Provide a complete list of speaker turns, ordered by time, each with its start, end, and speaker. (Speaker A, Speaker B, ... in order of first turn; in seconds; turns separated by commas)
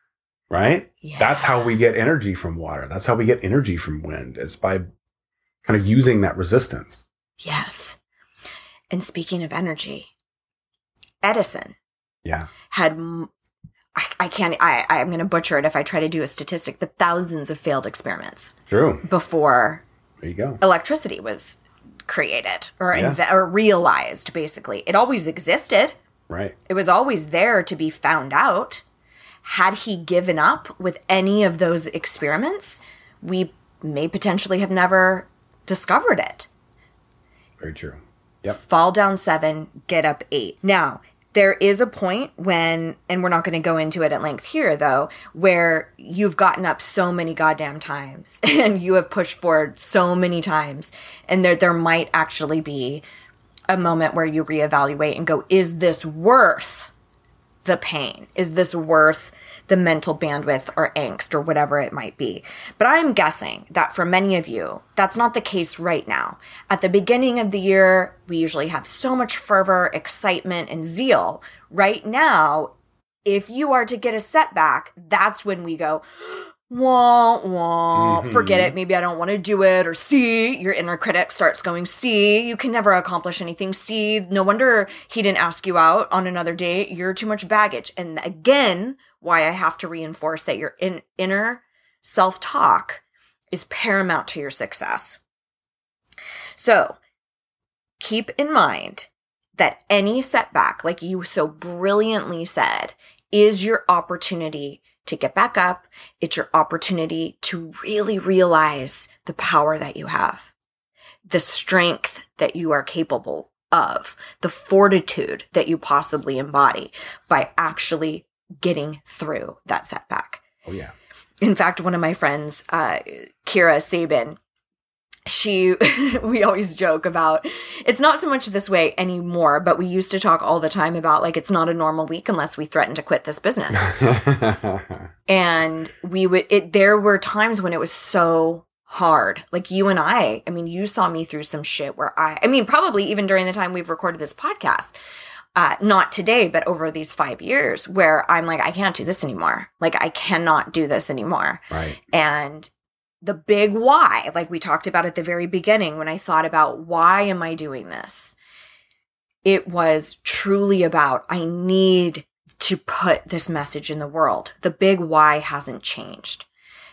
Speaker A: 0.5-4.8, Speaker B: 1.0-1.5, Speaker A: 5.7-7.0, Speaker B: 7.4-8.0, Speaker B: 8.9-10.1, Speaker B: 11.2-11.8, Speaker A: 12.2-12.5, Speaker B: 12.7-13.3, Speaker B: 14.0-19.8, Speaker A: 18.7-19.0, Speaker A: 20.2-20.6, Speaker B: 20.6-26.0, Speaker A: 22.9-23.2, Speaker A: 26.3-26.6, Speaker B: 26.7-28.8, Speaker B: 29.4-36.5, Speaker A: 37.6-38.6, Speaker B: 38.5-53.0, Speaker B: 53.7-56.9, Speaker B: 57.6-72.7, Speaker B: 73.3-95.2, Speaker A: 78.0-78.7, Speaker B: 96.6-97.0, Speaker B: 98.0-110.5, Speaker B: 111.3-120.4, Speaker A: 120.7-120.9, Speaker B: 121.4-124.4, Speaker B: 125.3-133.9, Speaker A: 133.8-135.1, Speaker B: 135.3-144.9, Speaker B: 145.6-152.7, Speaker A: 151.7-152.0, Speaker B: 153.2-158.4, Speaker B: 159.4-166.5